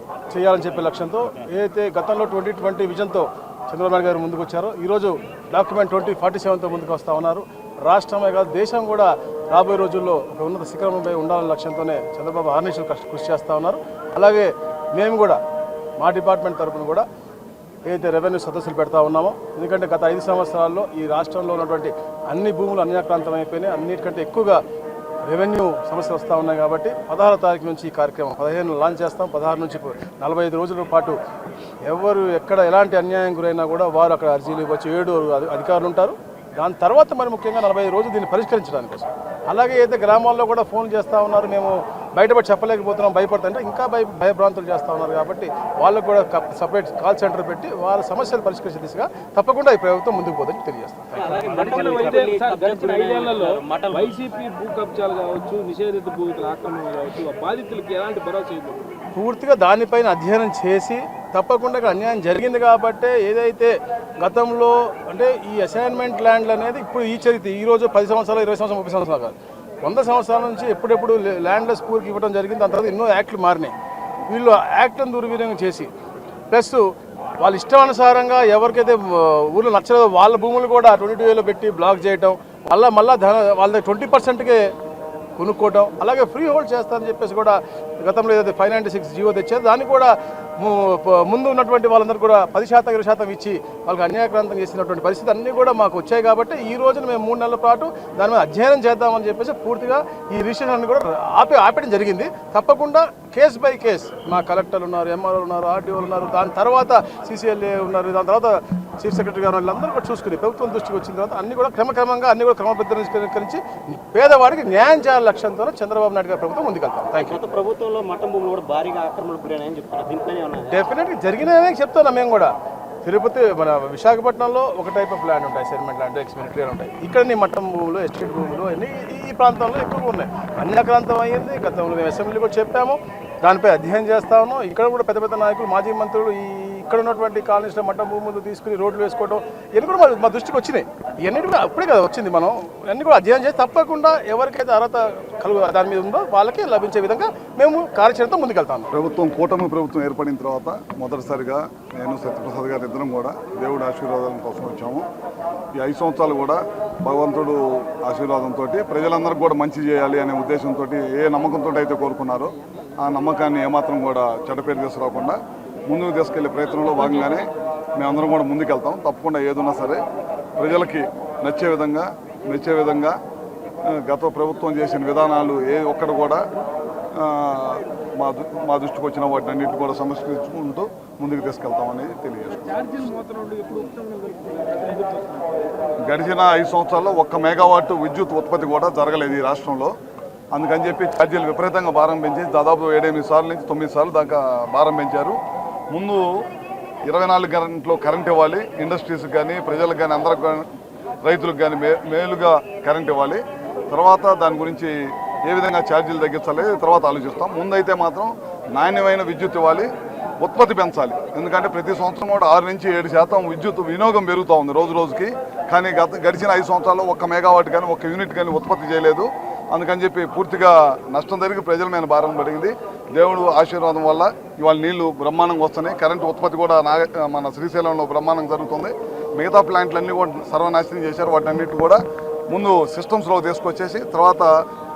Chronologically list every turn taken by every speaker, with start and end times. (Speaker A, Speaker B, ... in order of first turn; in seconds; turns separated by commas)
Speaker A: 0.3-15.4, Speaker A: 16.0-17.0, Speaker A: 17.9-24.6, Speaker A: 25.3-31.1, Speaker A: 31.9-51.3, Speaker B: 51.2-54.1, Speaker C: 51.4-58.8, Speaker A: 59.1-73.7, Speaker A: 74.3-75.9, Speaker A: 76.5-76.8, Speaker A: 77.4-84.6, Speaker A: 85.4-117.4, Speaker B: 117.2-120.8, Speaker A: 120.7-122.5, Speaker A: 123.0-148.9, Speaker D: 148.9-155.1, Speaker D: 155.8-170.0, Speaker D: 170.6-173.2, Speaker D: 173.8-176.4, Speaker D: 177.1-182.6, Speaker C: 182.6-185.5, Speaker D: 186.0-189.9, Speaker D: 190.5-195.4, Speaker D: 195.9-196.3, Speaker D: 197.0-200.7, Speaker D: 201.2-209.9, Speaker D: 210.4-234.5